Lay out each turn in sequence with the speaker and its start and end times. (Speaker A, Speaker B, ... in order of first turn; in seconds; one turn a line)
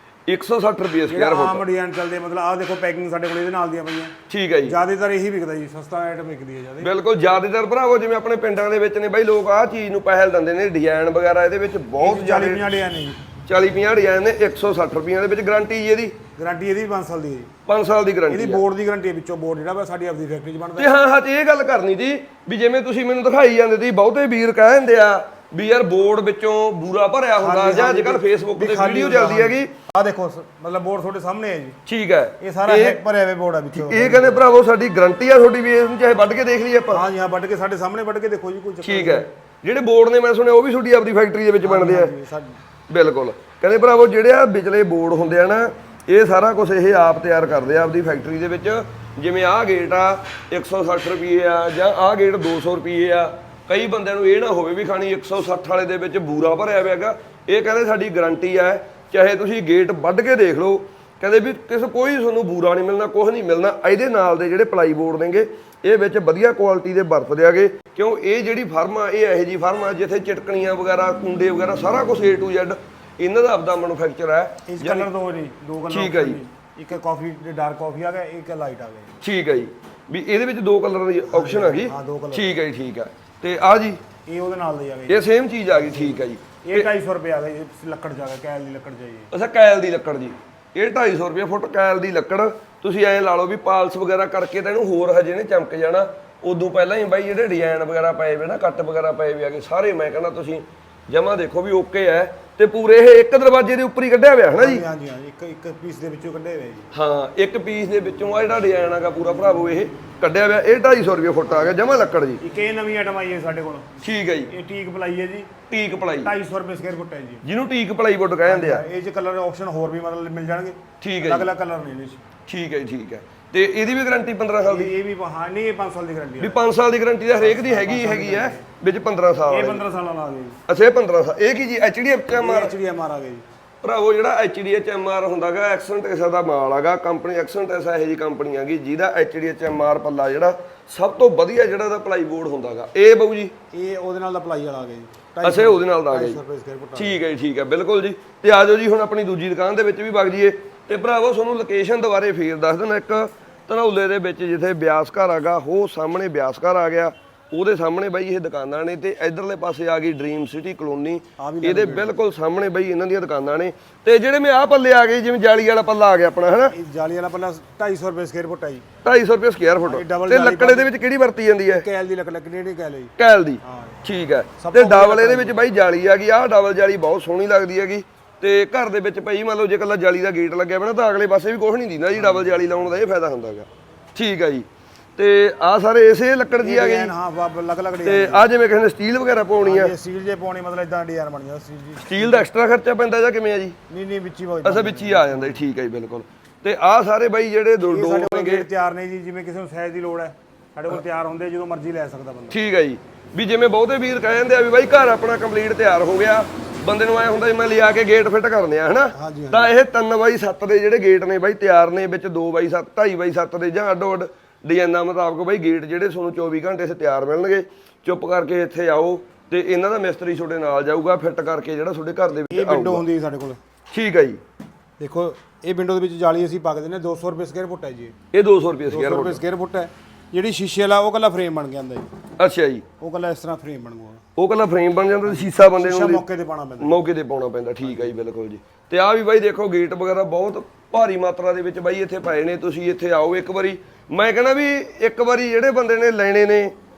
Speaker A: 0.3-1.6
Speaker B: 1.1-4.1
Speaker A: 4.3-4.8
Speaker B: 4.7-6.9
Speaker A: 6.8-12.7
Speaker B: 12.0-13.2
Speaker A: 13.5-16.1
Speaker B: 16.4-17.5
Speaker A: 17.6-18.6
Speaker B: 18.3-20.9
Speaker A: 20.8-29.7
Speaker B: 27.4-31.8
Speaker A: 31.9-33.0
Speaker B: 32.4-34.4
Speaker A: 33.7-37.0
Speaker B: 36.9-39.3
Speaker A: 38.8-42.1
Speaker B: 41.6-42.5
Speaker A: 42.9-75.1
Speaker B: 74.7-79.1
Speaker A: 75.9-76.4
Speaker A: 79.2-84.0
Speaker B: 81.3-82.5
Speaker B: 84.3-89.3
Speaker A: 85.1-86.9
Speaker A: 89.3-104.8
Speaker B: 104.5-106.9
Speaker A: 106.9-112.4
Speaker B: 112.4-113.9
Speaker A: 114.0-114.5
Speaker B: 114.5-115.5
Speaker A: 115.7-116.3
Speaker B: 116.2-117.4
Speaker A: 117.4-118.8
Speaker B: 118.4-122.2
Speaker A: 121.0-121.5
Speaker A: 122.5-124.9
Speaker B: 124.7-126.6
Speaker A: 126.4-129.8
Speaker B: 127.3-128.6
Speaker B: 129.5-130.6
Speaker A: 130.7-132.7
Speaker B: 132.3-133.4
Speaker A: 133.8-143.5
Speaker B: 143.7-147.2
Speaker A: 145.4-146.4
Speaker A: 146.9-166.7
Speaker B: 161.4-162.1
Speaker B: 166.7-168.8
Speaker A: 169.0-171.8
Speaker B: 169.8-170.9
Speaker B: 171.7-174.0
Speaker A: 173.2-184.7
Speaker B: 174.6-175.6
Speaker B: 182.1-182.9
Speaker A: 185.2-187.1
Speaker B: 186.6-188.4
Speaker A: 188.0-189.9
Speaker B: 189.6-192.4
Speaker A: 192.0-193.8
Speaker B: 193.9-195.6
Speaker A: 194.6-198.7
Speaker B: 197.9-202.6
Speaker A: 202.5-223.0
Speaker B: 209.1-209.7
Speaker B: 222.3-223.6
Speaker A: 223.9-224.4
Speaker B: 225.0-228.1
Speaker A: 228.3-229.4
Speaker B: 228.9-232.1
Speaker A: 232.4-232.8
Speaker B: 233.0-234.2
Speaker A: 234.3-236.2
Speaker B: 235.2-236.9
Speaker A: 236.8-246.7